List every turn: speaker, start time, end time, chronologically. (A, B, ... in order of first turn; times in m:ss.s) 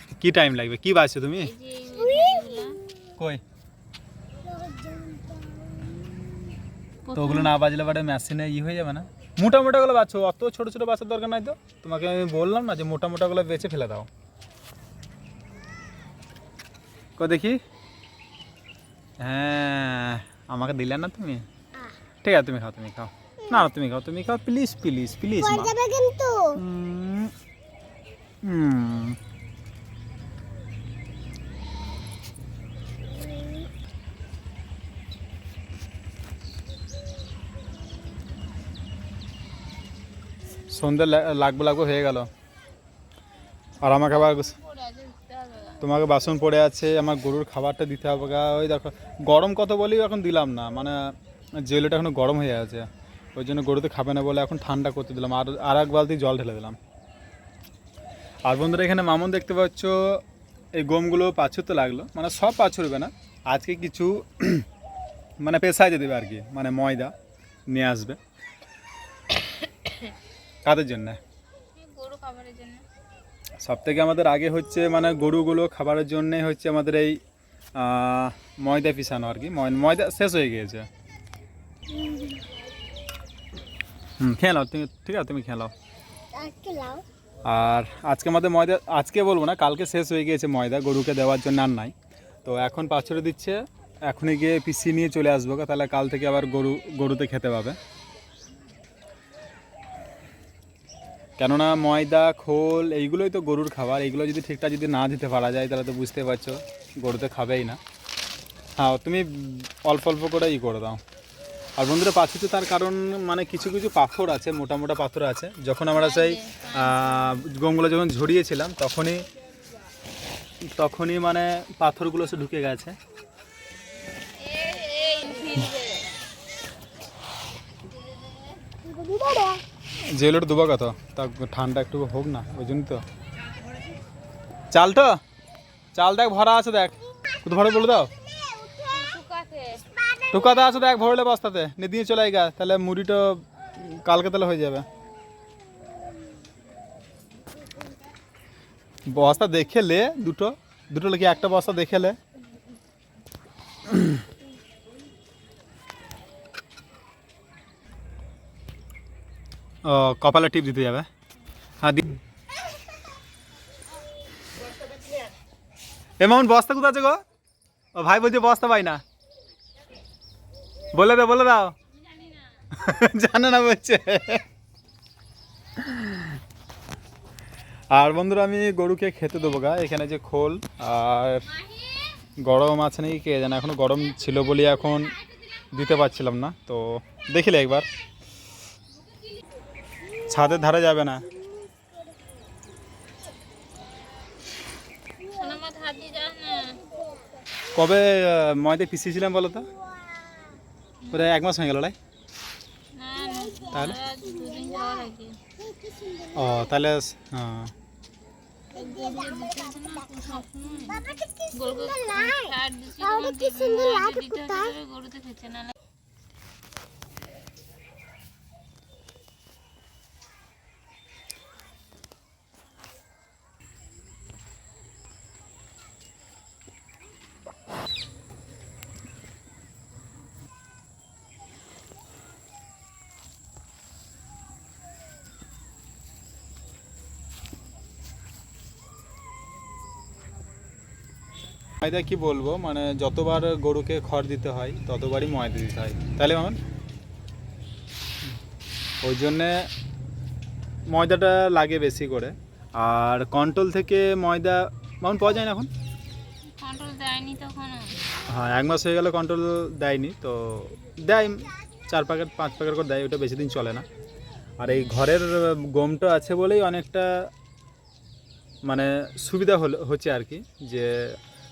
0:00.2-0:01.5 A
0:01.4-0:02.8 B
0:04.5-0:06.3 C
0:07.1-0:07.5 B
0:07.2-0:14.1 A
0:17.2-0:17.6 A
0:19.2-0:21.4 A
0:22.2-0:25.7 A
0:25.4-0:26.6 C
0:26.5-0:27.3 A
0:28.4-0:29.2 A
0:33.2-0:33.6 C
0:40.7-0:42.3 A
0:43.8-0:44.6 A
0:43.9-0:45.8 B
0:45.8-0:51.0 A
0:51.6-0:56.8 A
0:58.5-1:00.2 A
1:00.8-1:04.6 A
1:05.4-1:07.1 A
1:07.7-1:08.2 A
1:09.4-1:10.0 B
1:10.6-1:11.2 A
1:11.7-1:12.8 B
1:13.6-1:17.2 A
1:17.8-1:20.9 A
1:21.9-1:22.4 C
1:24.2-1:25.7 A
1:26.3-1:27.0 C
1:27.4-1:31.9 A
1:32.4-1:37.8 A
1:41.4-1:47.8 A
1:48.8-1:51.0 A
1:51.8-1:59.2 A
1:56.0-1:57.4 B
2:00.8-2:03.0 A
2:04.4-2:06.1 B
2:08.8-2:09.6 C
2:10.1-2:13.0 A
2:14.7-2:15.2 A
2:15.9-2:18.1 A
2:18.4-2:18.9 C
2:18.8-2:19.8 B
2:20.0-2:20.3 C
2:20.3-2:24.8 A
2:29.1-2:32.2 A
2:33.9-2:34.2 A
2:39.8-2:41.1 A
2:41.8-2:42.2 A
2:46.2-2:47.2 A
2:48.0-2:49.0 A
2:50.9-2:51.8 A
2:52.7-2:54.4 A
2:55.8-2:56.4 A
2:57.9-3:01.5 A
3:02.4-3:05.1 A
3:05.7-3:07.9 A
3:10.3-3:11.2 A
3:15.2-3:16.8 B
3:17.8-3:19.7 A
3:20.2-3:20.6 C
3:21.1-3:22.0 A
3:22.9-3:25.4 B
3:23.4-3:23.8 C
3:23.7-3:24.0 A
3:24.3-3:25.0 C
3:25.6-3:26.6 C
3:26.3-3:27.7 A
3:28.7-3:35.8 B
3:28.8-3:30.3 C
3:30.8-3:34.7 C
4:01.8-4:06.6 A
4:09.0-4:09.7 A
4:10.9-4:15.7 A
4:16.6-4:18.0 B
4:18.3-4:23.9 A
4:24.6-4:27.1 A
4:28.7-4:31.2 A